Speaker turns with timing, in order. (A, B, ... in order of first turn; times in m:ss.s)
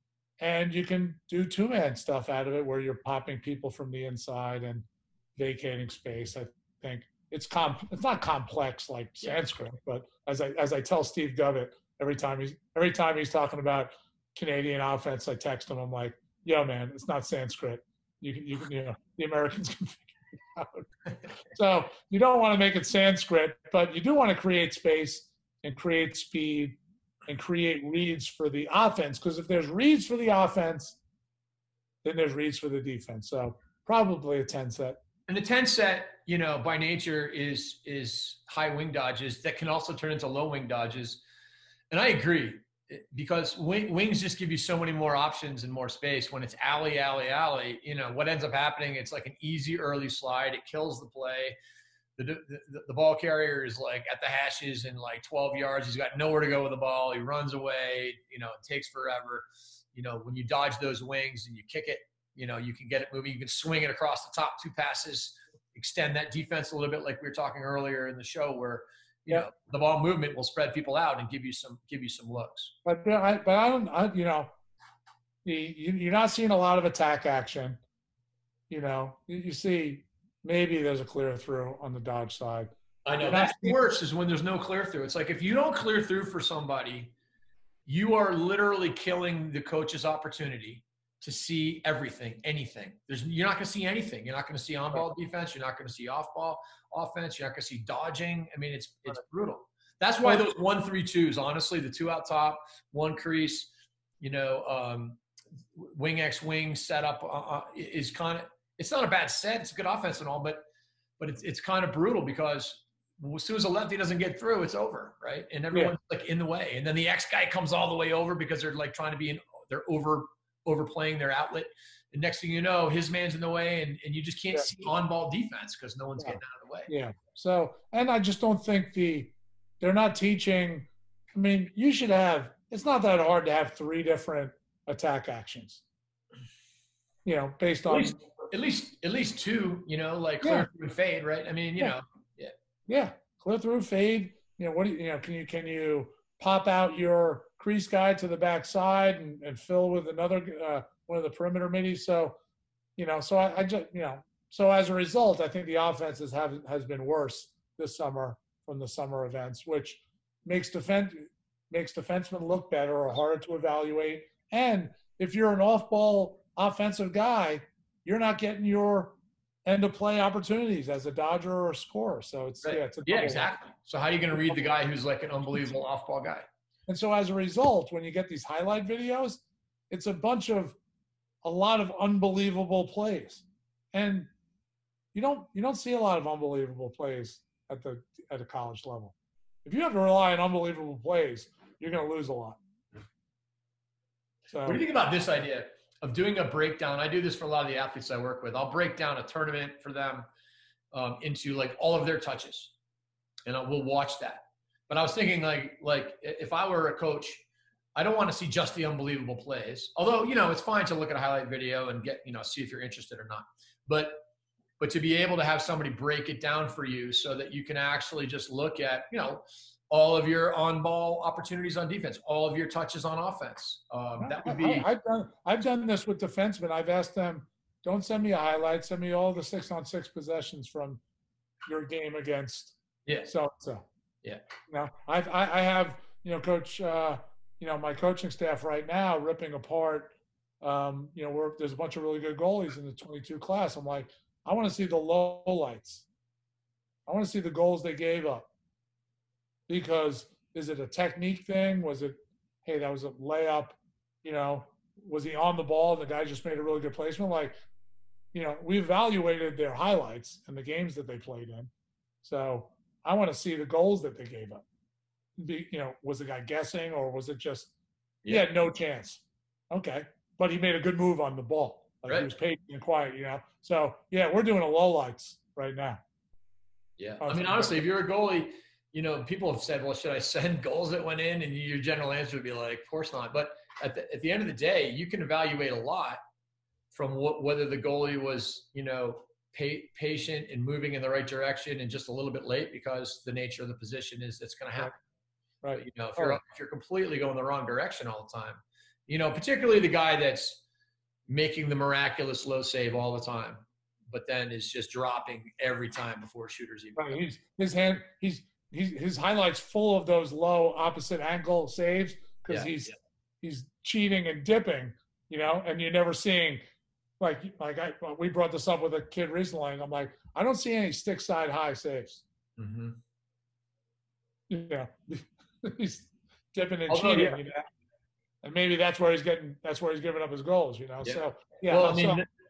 0:00.4-0:04.8 A
0:05.4-0:20.9 A
0:21.4-0:31.0 A
0:32.0-0:35.0 A
0:35.3-0:41.2 B
0:41.9-0:51.6 B
0:52.2-1:12.7 B
1:12.8-1:14.5 A
1:15.4-1:17.8 A
1:18.7-1:23.8 A
1:23.0-1:27.1 B
1:27.9-1:45.2 B
1:45.7-1:50.6 B
1:51.2-2:06.9 B
2:06.2-2:15.8 A
2:17.2-2:18.2 A
2:17.9-2:22.5 B
2:20.4-2:20.7 A
2:22.9-2:32.4 A
2:33.0-2:53.6 A
2:52.6-2:56.5 B
2:56.9-3:00.8 A
3:01.4-3:04.3 A
3:05.1-3:09.1 A
3:09.6-3:12.6 A
3:14.5-3:14.8 A
3:14.6-3:20.3 B
3:20.9-3:22.7 B
3:23.5-3:27.4 B
3:28.0-3:34.2 B
3:34.8-3:44.9 B
3:44.2-3:51.0 A
3:51.6-3:53.8 A
3:54.7-4:06.1 A
4:07.1-4:08.5 A
4:09.7-4:17.6 A
4:18.3-4:21.7 A
4:22.2-4:24.6 A
4:25.4-4:27.7 A
4:28.3-4:36.0 A
4:37.0-4:46.2 B
4:37.2-4:37.8 A
4:46.9-4:55.0 B
4:55.6-4:56.4 A
4:55.8-5:00.6 B
5:01.3-5:07.2 B
5:07.0-5:16.6 A
5:12.5-5:12.9 B
5:17.2-5:22.2 A
5:22.6-5:23.0 B
5:24.5-5:27.7 A
5:26.9-5:27.4 B
5:28.4-5:32.2 A
5:31.0-5:32.3 B